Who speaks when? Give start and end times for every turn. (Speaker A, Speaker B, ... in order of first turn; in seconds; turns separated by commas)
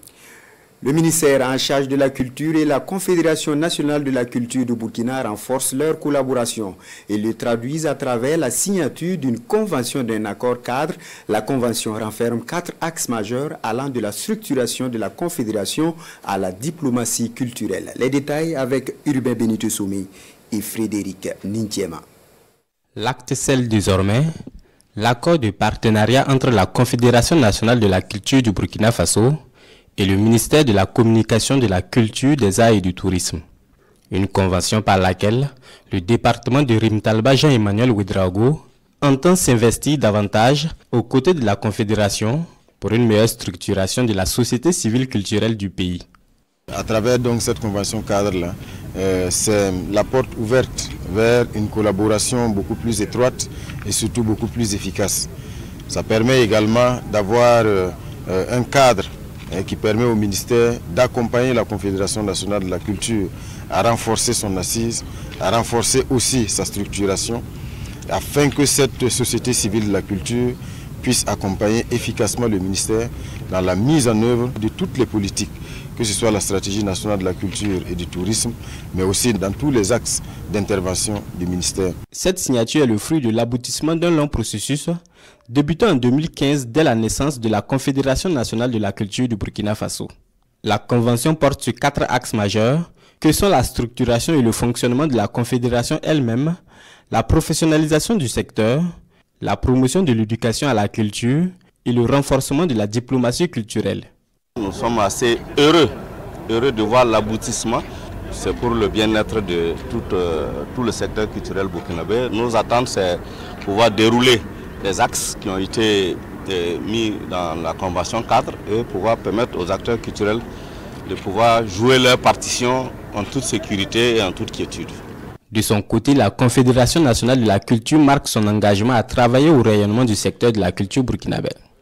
Speaker A: 0.8-22.0, Speaker B: 23.0-24.3, Speaker B: 25.0-29.4, Speaker B: 30.0-33.4, Speaker B: 34.1-46.0, Speaker C: 46.7-55.3, Speaker C: 55.9-67.4, Speaker C: 68.1-82.0, Speaker B: 82.1-90.1, Speaker B: 90.6-96.6, Speaker B: 97.1-98.9, Speaker B: 99.4-104.1, Speaker D: 104.6-105.9, Speaker D: 106.5-120.4, Speaker D: 121.1-125.0, Speaker B: 125.5-131.6